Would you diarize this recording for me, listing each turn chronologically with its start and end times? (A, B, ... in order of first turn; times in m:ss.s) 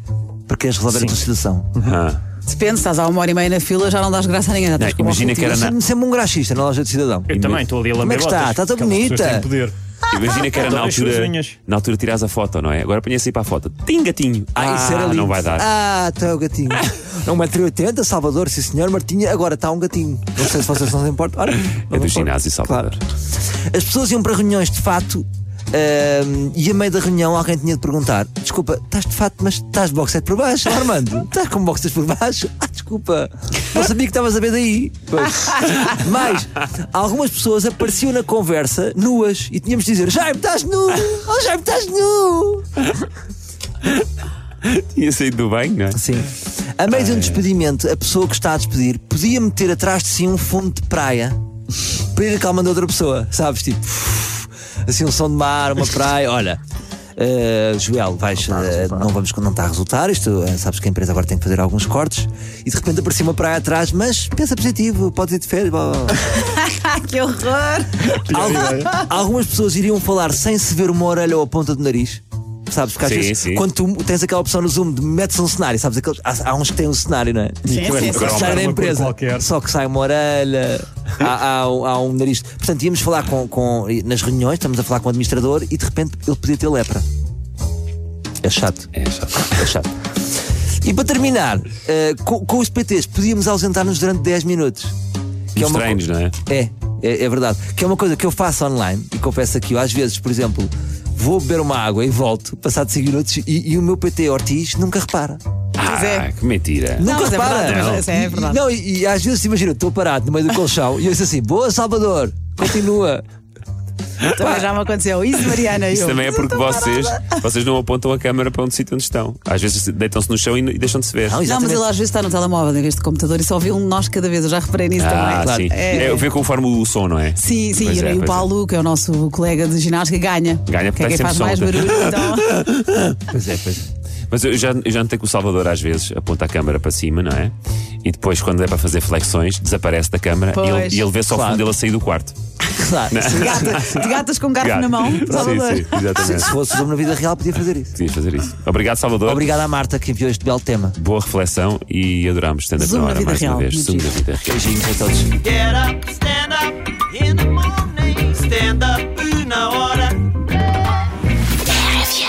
0:00.5-0:01.7 A
0:00.9-0:01.2 B
0:01.8-0:02.2 C
0:02.5-0:05.6 D
0:04.8-0:05.8 C
0:05.5-0:07.3 A
0:07.3-0:09.8 B
0:07.3-0:07.7 C
0:08.0-0:09.5 A
0:10.1-0:15.7 C
0:10.4-0:11.6 B
0:14.6-0:22.9 A
0:21.9-0:23.0 C
0:23.7-0:42.6 A
0:44.6-0:46.0 C
0:45.9-0:51.4 A
0:46.9-0:47.4 C
0:52.1-0:56.6 A
0:57.2-1:06.3 A
1:06.3-1:08.2 D
1:08.2-1:08.9 B
1:08.3-1:27.0 A
1:13.0-1:13.6 C
1:17.6-1:18.6 D
1:17.7-1:19.5 B
1:28.4-1:29.9 A
1:28.9-1:29.8 C
1:30.8-1:34.9 A
1:35.5-1:45.4 A
1:35.6-1:36.4 C
1:45.8-1:48.0 C
1:45.8-1:46.3 D
1:47.0-1:53.2 A
1:47.0-1:48.6 D
1:54.2-1:57.4 D
1:54.4-1:54.7 A
1:55.8-2:01.4 C
2:01.2-2:01.8 A
2:01.4-2:06.3 D
2:05.0-2:08.5 C
2:05.4-2:06.2 A
2:07.4-2:12.6 D
2:10.7-2:13.2 C
2:13.3-2:13.9 A
2:14.3-2:22.4 C
2:20.5-2:21.1 D
2:21.3-2:21.6 A
2:22.7-2:24.0 A
2:23.1-2:26.6 C
2:23.3-2:26.4 D
2:25.3-2:25.6 A
2:26.2-2:28.0 A
2:28.0-2:29.5 C
2:29.3-2:31.0 A
2:31.0-2:34.7 C
2:32.8-2:34.2 D
2:34.4-2:35.4 A
2:35.6-2:36.4 E
2:37.5-2:40.2 E